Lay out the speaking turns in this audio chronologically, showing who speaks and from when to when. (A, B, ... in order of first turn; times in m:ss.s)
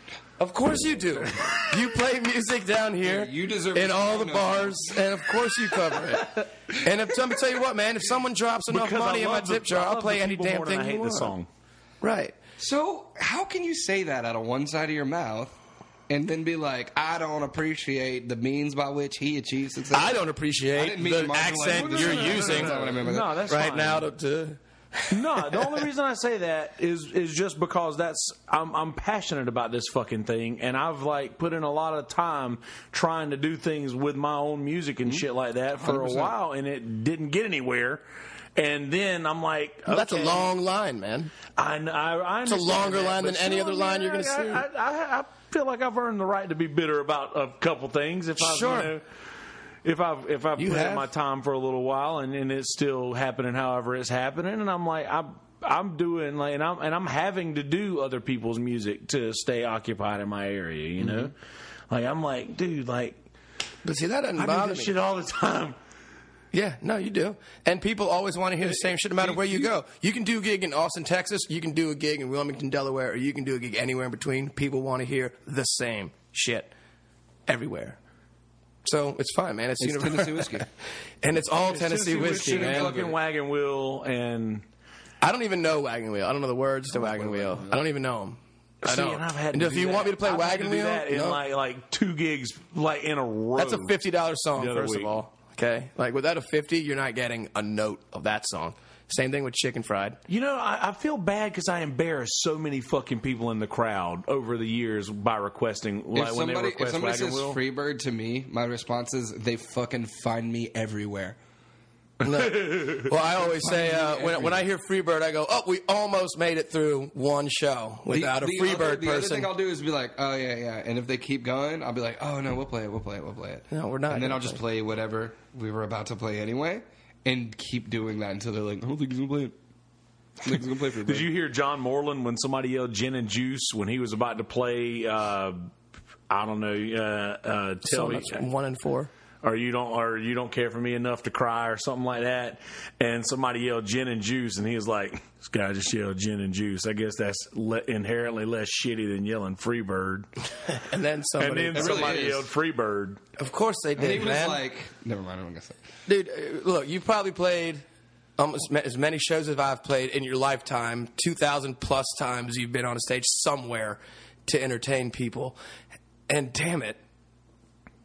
0:00.4-0:11.3 A
0:01.3-0:01.7 B
0:03.0-0:05.1 C
0:08.7-0:11.5 B
0:12.0-0:12.4 A
0:12.6-0:15.5 C
0:16.1-0:20.2 C
0:19.9-0:25.9 A
0:20.7-0:23.4 C
0:21.7-0:24.1 B
0:25.1-0:38.0 B
0:35.8-0:36.3 C
0:38.6-0:40.5 B
0:39.9-0:41.3 A
0:41.6-0:49.0 B
0:42.4-0:44.6 A
0:48.4-0:48.9 A
0:49.8-1:01.3 B
0:50.6-0:51.1 A
1:01.9-1:03.2 B
1:03.8-1:04.9 A
1:04.4-1:05.8 B
1:06.5-1:16.7 A
1:09.2-1:09.7 C
1:17.5-1:18.0 A
1:18.8-1:20.7 A
1:19.8-1:20.7 C
1:21.2-1:23.0 A
1:21.6-1:24.6 B
1:22.0-1:23.2 C
1:25.2-1:31.4 A
1:26.9-1:27.8 C
1:28.8-1:33.9 B
1:33.6-1:40.2 A
1:34.6-1:35.2 B
1:40.3-1:47.6 B
1:46.1-1:51.4 C
1:52.2-1:59.5 A
1:52.3-1:53.1 B
1:53.3-1:54.6 C
1:58.1-2:09.5 C
2:03.7-2:04.6 A
2:10.4-2:11.3 C
2:11.0-2:15.7 B
2:16.3-2:18.5 B
2:17.8-2:19.1 A
2:19.4-2:30.3 B
2:30.7-2:32.3 A
2:31.4-2:33.2 B
2:31.7-2:32.5 C
2:33.4-2:34.6 A
2:34.0-2:35.8 C
2:36.1-2:37.8 A
2:38.4-2:45.6 A
2:46.3-2:47.0 A